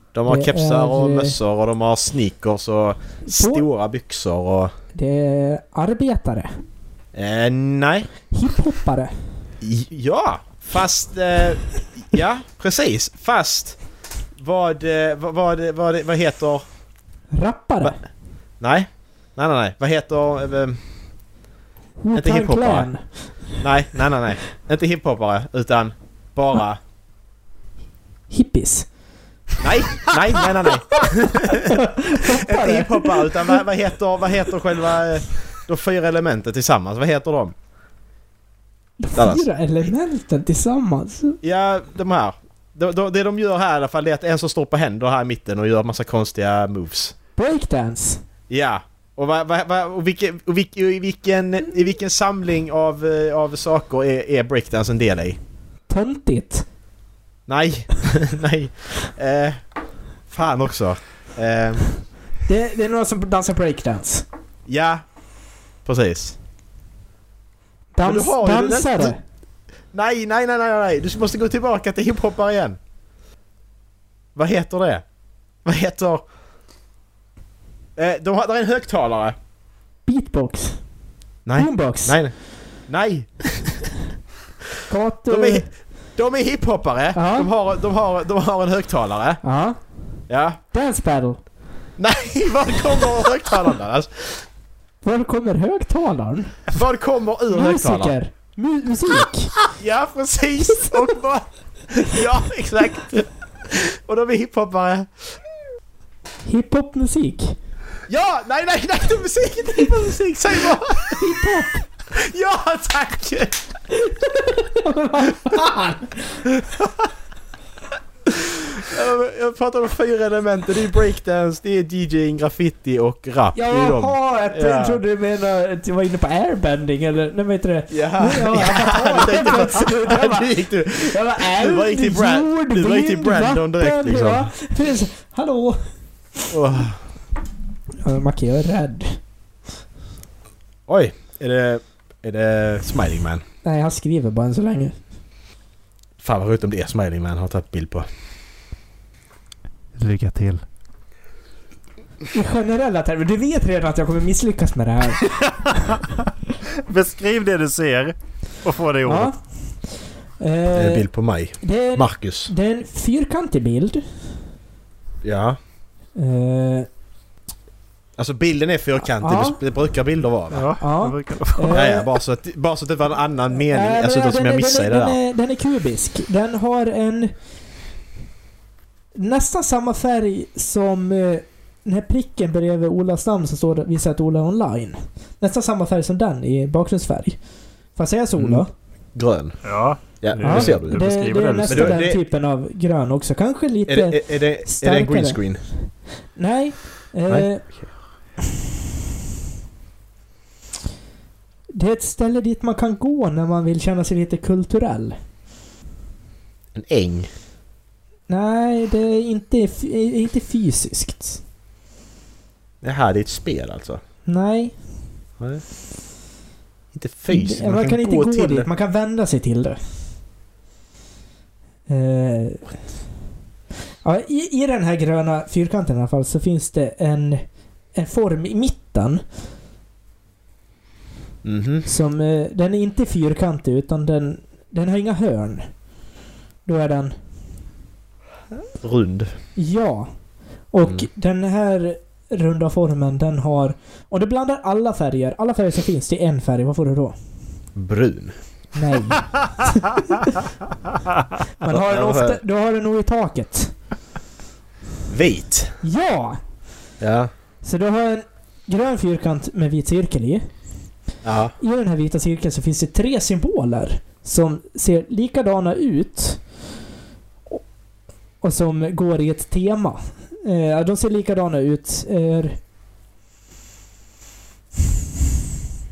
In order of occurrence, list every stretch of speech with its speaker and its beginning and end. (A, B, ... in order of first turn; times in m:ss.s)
0:00.1-0:04.7 A
0:00.3-0:01.4 B
0:03.3-0:03.6 B
0:04.9-0:06.5 B
0:07.1-0:08.1 A
0:08.3-0:09.1 B
0:09.6-0:13.8 A
0:14.4-0:16.6 A
0:17.3-0:18.0 B
0:18.6-0:20.8 A
0:22.0-0:23.3 B
0:22.1-0:22.9 A
0:23.6-0:26.8 A
0:28.3-0:28.9 B
0:29.6-0:37.5 A
0:31.4-0:33.6 B
0:39.0-0:41.4 B
0:39.1-0:39.4 A
0:41.4-0:47.1 A
0:47.4-0:48.2 B
0:48.5-0:55.4 A
0:55.9-0:56.6 B
0:57.5-0:59.6 A
1:00.3-1:01.8 A
1:02.5-1:04.2 B
1:04.7-1:05.0 A
1:05.8-1:06.4 A
1:07.9-1:09.2 B
1:08.0-1:09.2 A
1:09.9-1:12.8 A
1:14.3-1:15.0 A
1:15.6-1:16.2 A
1:18.0-1:19.4 A
1:20.0-1:20.8 B
1:21.4-1:22.3 A
1:21.5-1:22.2 B
1:22.9-1:23.9 A
1:24.9-1:25.6 B
1:25.3-1:29.4 A
1:27.1-1:27.5 B
1:29.4-1:29.8 B
1:30.3-1:30.6 A
1:30.7-1:31.4 B
1:32.0-1:34.4 A
1:35.0-1:36.6 B
1:36.7-1:38.1 A
1:37.5-1:39.6 B
1:39.7-1:45.4 A
1:46.4-1:47.6 B
1:48.1-1:51.4 A
1:51.1-1:51.9 B
1:52.1-1:53.6 A
1:54.0-1:56.4 B
1:56.5-1:57.1 A
1:58.2-2:05.0 A
2:03.5-2:16.5 B
2:07.9-2:14.5 A
2:16.5-2:17.0 A
2:18.0-2:19.2 B
2:20.9-2:23.4 A
2:23.6-2:25.0 B
2:26.2-2:28.1 A
2:30.0-2:30.6 C
2:32.3-2:35.4 B
2:35.4-2:39.3 C
2:39.0-2:41.0 B
2:40.7-2:42.5 A
2:41.6-2:44.2 B
2:45.2-2:45.6 A
2:46.2-2:46.9 B
2:48.2-2:50.7 A
2:49.1-2:49.6 B
2:50.5-2:51.9 C
2:50.8-2:52.1 B
2:51.7-2:55.2 A
2:53.6-2:57.3 B
2:59.2-3:07.4 B
3:08.0-3:08.7 B
3:08.4-3:09.6 A
3:09.6-3:12.0 C
3:10.2-3:11.0 A
3:10.4-3:17.6 B
3:11.7-3:12.2 A
3:13.9-3:15.6 A
3:17.3-3:17.9 A
3:21.7-3:25.2 B
3:26.7-3:27.3 A
3:28.3-3:31.4 B
3:32.8-3:34.0 A
3:34.3-3:34.7 B
3:36.9-3:38.7 A
3:37.3-3:39.8 B
3:41.9-3:42.7 B
3:44.0-3:49.2 B
3:51.4-3:51.9 A
3:51.8-3:55.7 B
3:56.6-3:57.2 B
3:58.8-3:59.3 A
3:59.6-4:00.1 B
4:00.7-4:07.2 B
4:07.7-4:08.4 A
4:08.7-4:10.3 B
4:09.6-4:10.2 C
4:11.6-4:13.7 B
4:11.6-4:12.4 A
4:15.1-4:15.8 A
4:15.8-4:16.4 B
4:17.0-4:17.3 A
4:17.6-4:20.5 B
4:21.2-4:21.5 A
4:21.6-4:26.4 B
4:28.4-4:32.6 B